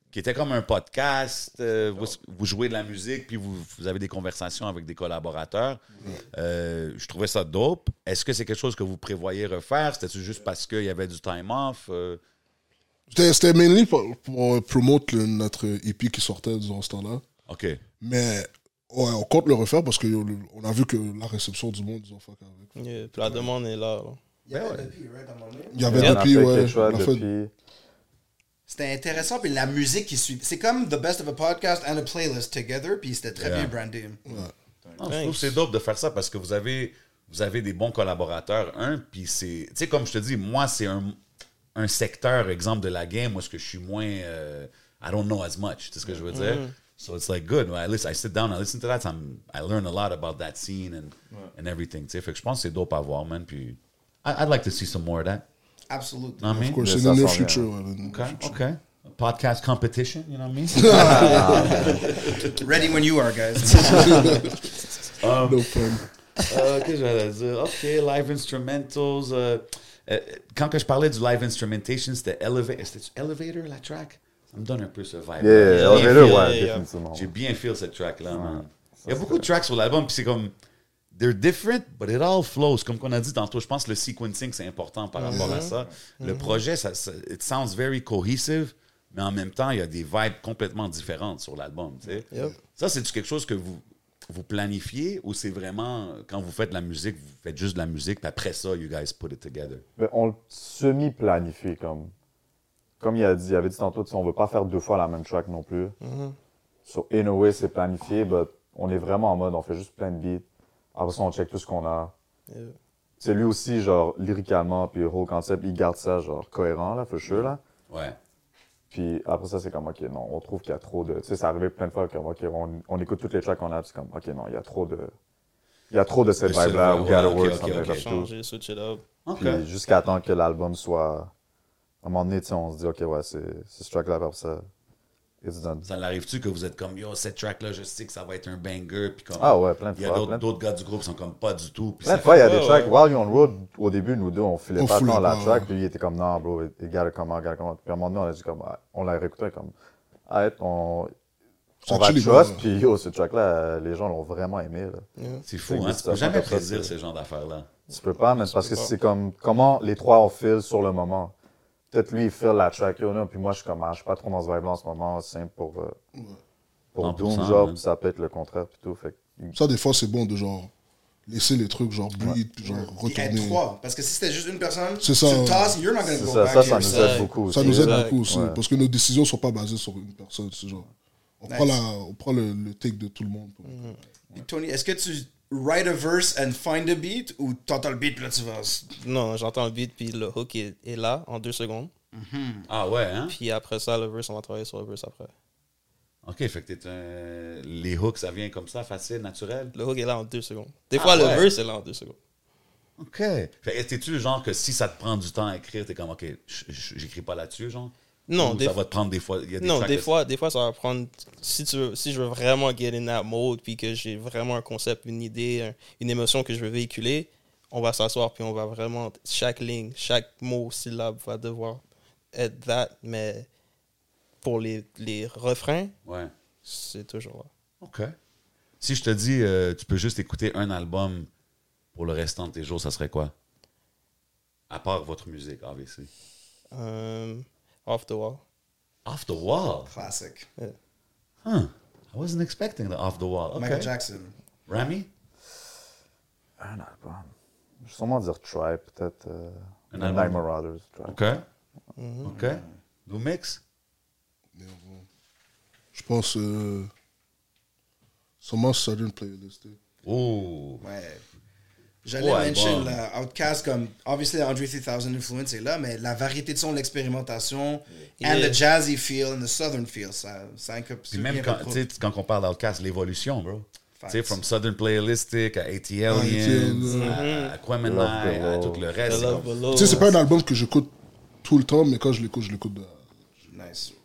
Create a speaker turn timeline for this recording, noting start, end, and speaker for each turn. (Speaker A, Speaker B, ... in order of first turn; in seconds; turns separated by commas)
Speaker A: 0.1-12.2, Speaker B: 13.1-17.2, Speaker A: 17.5-17.8, Speaker B: 18.0-23.5, Speaker C: 22.8-24.2, Speaker D: 24.5-26.0, Speaker A: 24.5-24.9, Speaker B: 25.7-27.2, Speaker E: 25.9-27.5, Speaker C: 25.9-26.2, Speaker D: 28.7-34.2, Speaker A: 33.4-33.7, Speaker B: 34.3-34.5, Speaker A: 35.0-41.2, Speaker C: 35.0-35.6, Speaker A: 41.8-55.4, Speaker C: 46.3-46.7, Speaker D: 55.9-56.6, Speaker A: 56.4-56.8, Speaker B: 56.5-58.6, Speaker E: 56.8-57.7, Speaker A: 58.1-62.9, Speaker B: 60.7-61.7, Speaker D: 60.9-64.6, Speaker E: 60.9-62.0, Speaker A: 63.6-64.5, Speaker B: 63.7-64.7, Speaker A: 65.2-65.8, Speaker B: 65.3-66.1, Speaker A: 66.4-76.5, Speaker E: 75.4-77.3, Speaker C: 75.7-76.8, Speaker A: 77.1-80.5, Speaker E: 78.3-79.5, Speaker A: 81.1-99.8, Speaker C: 85.2-86.6, Speaker B: 85.3-85.7, Speaker E: 100.0-102.1, Speaker E: 103.0-106.0, Speaker C: 106.0-106.4, Speaker E: 106.9-112.1, Speaker C: 112.5-112.8, Speaker E: 113.2-117.6, Speaker A: 117.3-118.2, Speaker E: 118.9-125.1, Speaker E: 125.9-128.3, Speaker A: 126.4-128.1, Speaker C: 127.4-129.0, Speaker A: 129.3-129.6, Speaker E: 129.4-131.3, Speaker E: 132.0-134.7, Speaker E: 135.4-135.9, Speaker A: 135.9-142.4, Speaker E: 139.4-140.4, Speaker E: 142.0-149.7, Speaker C: 142.2-143.0, Speaker B: 144.8-145.7, Speaker E: 150.3-151.1, Speaker B: 151.8-152.6, Speaker E: 151.9-155.1, Speaker C: 155.2-155.4, Speaker A: 155.5-157.7, Speaker E: 155.7-156.9, Speaker E: 157.9-161.3, Speaker C: 158.4-158.9, Speaker E: 161.9-166.0, Speaker E: 166.9-169.6, Speaker A: 167.0-167.8, Speaker B: 169.5-170.7, Speaker B: 171.3-173.6, Speaker D: 172.7-177.3, Speaker B: 175.0-175.8, Speaker E: 176.1-178.6, Speaker C: 176.7-178.2, Speaker B: 177.4-180.9, Speaker B: 181.4-184.2, Speaker D: 181.5-181.8, Speaker C: 183.7-184.0, Speaker D: 184.3-188.9, Speaker C: 189.0-191.9, Speaker D: 192.1-192.7, Speaker A: 192.7-193.3, Speaker C: 193.3-195.3, Speaker A: 196.2-199.7, Speaker C: 199.7-202.2, Speaker A: 200.9-201.5, Speaker A: 203.0-210.1, Speaker C: 208.3-208.8, Speaker C: 209.6-223.5, Speaker C: 224.4-225.9, Speaker A: 226.1-226.3, Speaker C: 226.7-227.5, Speaker A: 227.8-228.2, Speaker A: 228.8-231.3, Speaker A: 231.9-233.3, Speaker A: 234.7-236.1, Speaker C: 236.7-238.4, Speaker A: 239.1-239.9, Speaker D: 239.9-240.5, Speaker A: 241.4-243.9, Speaker D: 243.5-244.3, Speaker A: 244.7-245.1, Speaker E: 246.6-251.2, Speaker A: 249.9-250.4, Speaker A: 251.1-251.4, Speaker C: 252.0-252.3, Speaker A: 252.2-253.6, Speaker D: 252.2-252.7, Speaker B: 254.6-255.1, Speaker B: 255.9-256.9, Speaker B: 258.4-259.8, Speaker A: 260.0-260.9, Speaker D: 260.8-261.2, Speaker D: 262.0-271.8, Speaker A: 262.2-263.0, Speaker C: 268.2-268.6, Speaker A: 271.1-279.6, Speaker D: 274.0-274.4, Speaker B: 276.1-277.2, Speaker C: 276.9-277.6, Speaker E: 277.8-279.4, Speaker C: 279.1-280.2, Speaker B: 279.7-280.9, Speaker B: 281.4-283.1, Speaker D: 283.5-284.0